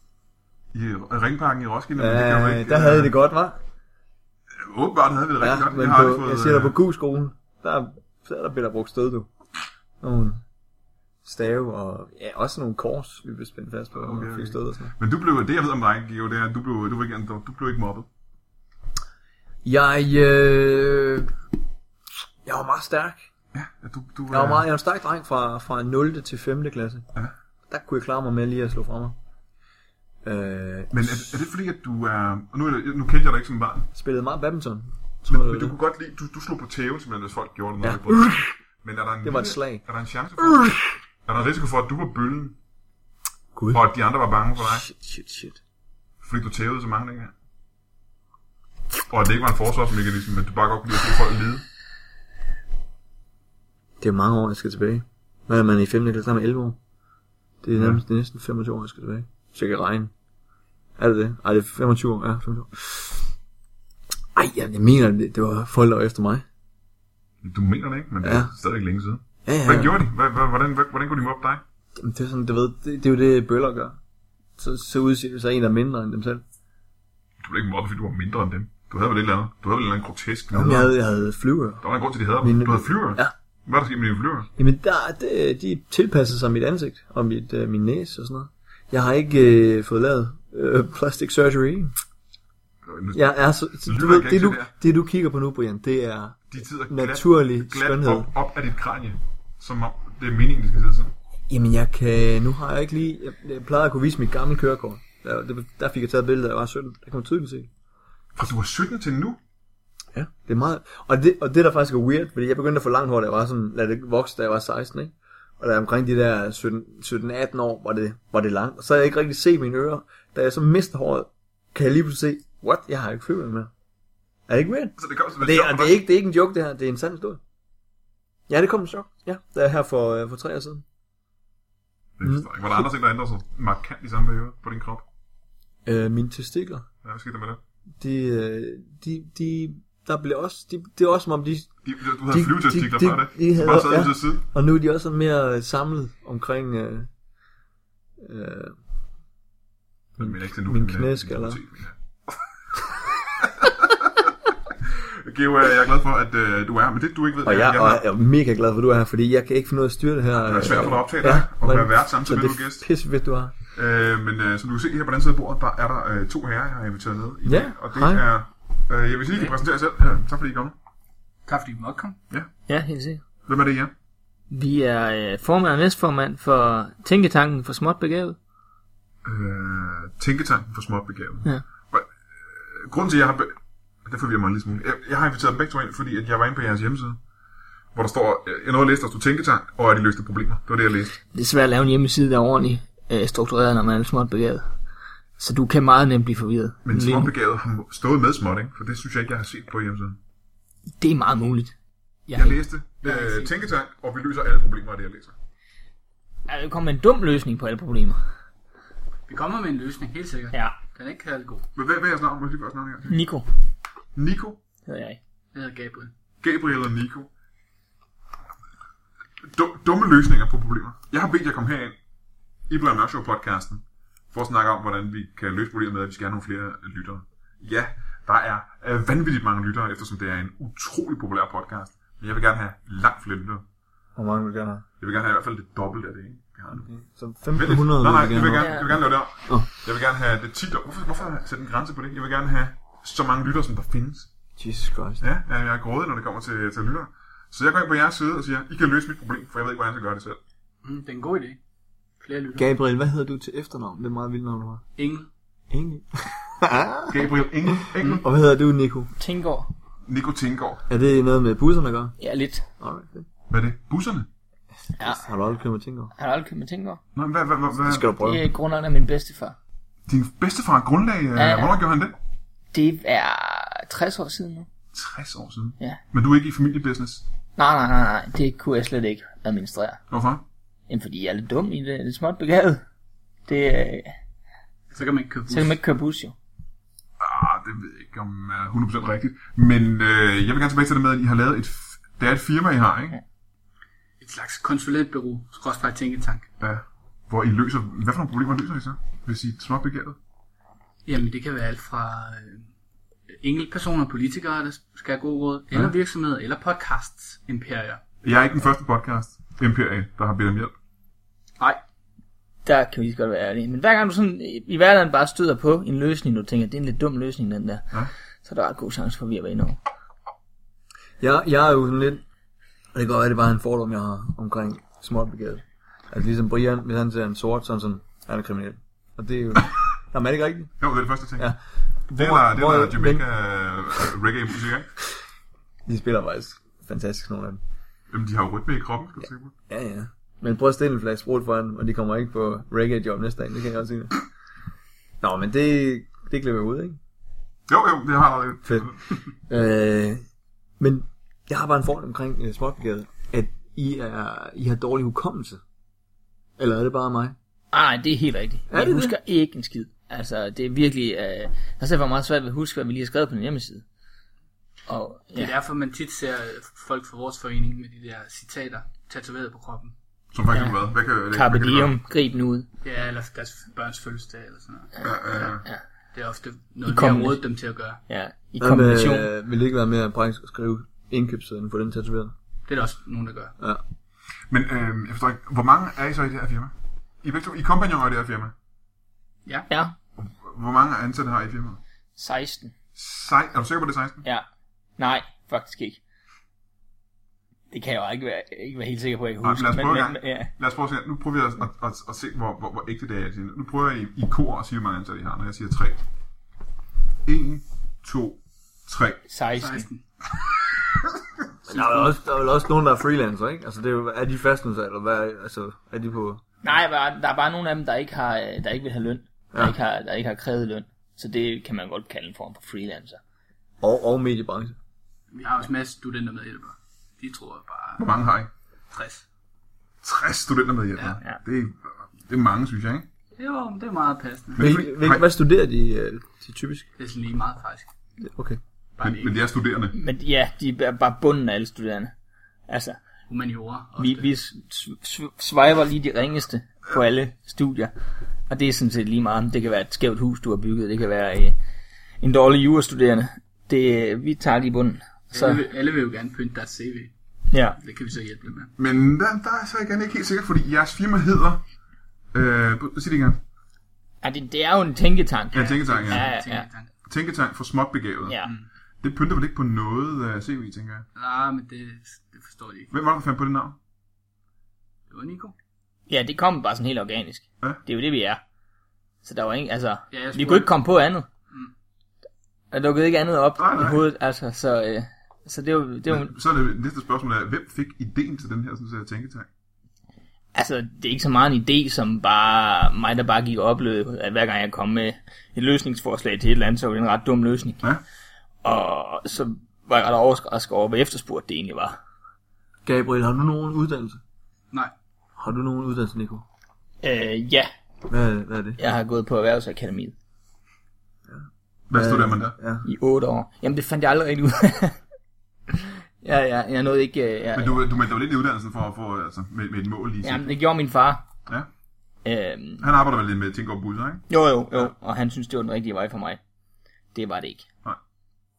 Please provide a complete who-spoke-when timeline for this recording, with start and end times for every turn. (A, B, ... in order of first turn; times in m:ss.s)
0:00.7-0:03.1 A
0:02.0-0:03.6 B
0:04.5-0:06.8 A
0:05.4-0:09.3 B
0:10.0-0:10.4 B
0:11.2-0:14.9 B
0:14.0-0:18.1 A
0:19.6-0:21.3 B
0:22.4-0:23.2 B
0:23.5-0:24.7 A
0:24.3-0:27.1 B
0:27.7-0:29.2 B
0:30.2-0:31.4 B
0:30.9-0:33.9 A
0:34.0-0:35.8 B
0:35.2-0:40.7 A
0:37.8-0:38.5 B
0:39.2-0:39.8 B
0:40.4-0:40.8 B
0:41.2-0:42.6 A
0:43.6-0:43.8 B
0:43.7-0:44.9 A
0:44.6-0:45.6 B
0:46.2-0:47.3 A
0:49.1-0:51.6 A
0:54.0-0:56.8 B
0:57.6-1:00.1 B
0:57.8-0:58.0 A
1:01.0-1:03.3 B
1:04.4-1:06.4 B
1:07.4-1:11.6 A
1:08.2-1:08.5 B
1:09.5-1:10.0 B
1:12.0-1:14.0 B
1:14.6-1:16.4 B
1:17.4-1:20.9 A
1:20.5-1:21.8 B
1:21.8-1:24.5 A
1:22.4-1:23.3 B
1:24.6-1:31.9 B
1:32.8-1:33.3 A
1:33.1-1:38.3 B
1:33.8-1:34.7 A
1:36.5-1:41.1 A
1:41.5-1:47.7 B
1:48.4-1:49.4 A
1:50.1-2:03.7 B
2:04.5-2:07.4 B
2:05.0-2:06.0 A
2:08.5-2:10.8 B
2:12.2-2:15.0 A
2:15.8-2:16.9 B
2:17.0-2:17.6 A
2:18.0-2:21.7 B
2:21.8-2:24.4 A
2:22.3-2:27.1 B
2:28.2-2:28.8 B
2:30.2-2:31.6 B
2:30.2-2:32.0 A
2:33.4-2:34.3 A
2:34.8-2:38.0 A
2:37.4-2:43.5 B
2:40.4-2:42.8 A
2:43.7-2:50.8 A
2:47.5-2:48.2 B
2:51.5-2:52.2 C
2:52.7-2:53.2 D
2:53.5-2:53.9 A
2:54.5-2:58.4 D
2:59.2-3:07.2 A
3:08.0-3:11.2 A
3:11.3-3:14.7 D
3:15.4-3:17.3 D
3:16.8-3:20.2 A
3:21.0-3:21.7 D
3:22.3-3:22.6 D
3:22.3-3:25.3 A
3:23.0-3:23.6 C
3:26.5-3:28.2 D
3:29.3-3:31.6 C
3:31.8-3:33.2 A
3:33.1-3:33.5 D
3:34.2-3:34.6 A
3:34.9-3:35.2 D
3:35.5-3:36.1 C
3:36.4-3:37.3 A
3:39.4-3:42.0 A
3:42.7-3:53.6 A
3:54.2-3:54.8 B
3:55.0-3:56.9 A
3:56.8-3:58.8 B
3:57.6-4:04.3 A
3:58.6-3:58.9 D
4:04.6-4:05.2 B
4:05.2-4:10.4 A
4:10.8-4:11.6 C
4:12.2-4:12.7 C
4:12.6-4:14.8 B
4:15.0-4:15.3 C
4:15.7-4:19.1 B
4:17.1-4:18.2 A
4:19.2-4:19.7 D
4:20.1-4:20.8 A
4:20.9-4:22.2 B
4:22.2-4:22.6 D
4:22.8-4:23.3 B
4:23.5-4:24.3 A
4:25.0-4:26.1 B
4:25.0-4:25.2 D
4:26.2-4:27.0 D
4:27.2-4:28.1 A
4:27.8-4:28.4 B
4:28.1-4:29.6 D
4:30.1-4:32.2 A
4:31.4-4:31.7 D
4:32.7-4:34.7 D
4:34.9-4:37.2 A
4:37.6-4:40.0 D
4:40.1-4:40.4 A
4:40.9-4:42.8 D
4:43.5-4:44.2 D
4:44.9-4:45.8 C
4:45.5-4:46.4 D
4:47.2-4:53.2 A
4:54.2-4:56.5 C
4:56.6-5:00.2 A
5:01.1-5:02.6 C
5:03.4-5:08.0 C
5:08.2-5:10.7 A
5:12.6-5:19.8 D
5:21.2-5:22.2 B
5:22.9-5:30.7 B
5:30.8-5:31.5 A
5:31.4-5:33.2 B
5:32.1-5:34.9 A
5:35.9-5:37.6 B
5:38.1-5:39.5 A
5:39.7-5:44.2 B
5:45.2-5:47.0 B
5:47.7-5:49.2 A
5:48.6-5:48.9 B
5:49.5-5:50.2 B
5:50.8-5:55.6 B
5:56.6-5:57.4 B
5:57.7-6:03.8 D
5:58.7-5:59.2 B
6:04.9-6:05.6 D
6:05.4-6:09.9 C
6:10.3-6:11.9 A
6:11.3-6:12.7 D
6:12.8-6:15.5 C
6:15.0-6:15.7 A
6:16.1-6:18.0 C
6:16.8-6:17.4 D
6:18.1-6:19.3 D
6:18.6-6:22.3 B
6:22.7-6:23.6 C
6:24.5-6:28.5 A
6:29.7-6:29.9 D
6:30.2-6:31.8 A
6:32.2-6:32.7 D
6:33.0-6:34.2 A
6:35.0-6:36.0 D
6:37.7-6:40.5 D
6:39.4-6:46.0 A
6:47.2-6:49.2 A
6:49.3-6:49.9 D
6:49.6-6:50.0 C
6:51.6-6:56.4 B
6:51.7-6:52.0 C
6:56.6-7:03.2 D
7:03.8-7:04.8 B
7:05.3-7:08.0 C
7:08.0-7:08.5 A
7:08.9-7:09.2 C
7:10.0-7:13.0 A
7:13.4-7:14.6 C
7:14.6-7:15.3 A
7:14.6-7:16.9 B
7:17.0-7:17.9 C
7:18.2-7:18.6 B
7:19.0-7:19.4 C
7:19.0-7:20.0 A
7:19.9-7:22.1 D
7:22.7-7:23.0 D
7:23.3-7:24.3 C
7:24.0-7:27.9 D
7:28.5-7:31.6 D
7:32.2-7:35.6 D
7:35.3-7:37.1 C
7:37.5-7:37.8 D
7:37.8-7:38.7 C
7:38.8-7:41.6 A
7:42.3-7:43.4 A
7:44.2-7:46.7 D
7:45.5-7:46.3 A
7:45.6-7:46.9 C
7:47.1-7:48.4 A
7:48.3-7:48.5 D
7:49.0-7:51.1 A
7:51.2-7:52.9 C
7:52.9-7:53.8 A
7:55.1-7:55.6 C
7:56.1-7:58.4 D
7:59.2-8:01.3 D
8:00.1-8:00.7 C
8:02.7-8:06.3 D
8:03.6-8:04.0 A
8:06.1-8:09.5 A
8:10.5-8:17.8 D
8:18.6-8:22.0 D
8:22.8-8:24.2 B
8:25.4-8:26.5 B
8:27.0-8:27.7 D
8:28.1-8:28.8 B
8:28.8-8:30.1 D
8:31.3-8:32.9 B
8:31.9-8:32.6 A
8:32.8-8:35.0 D
8:35.7-8:37.8 D
8:37.5-8:40.6 A
8:40.2-8:41.2 D
8:42.2-8:42.8 D
8:42.8-8:44.9 A
8:44.3-8:46.4 D
8:47.1-8:47.7 D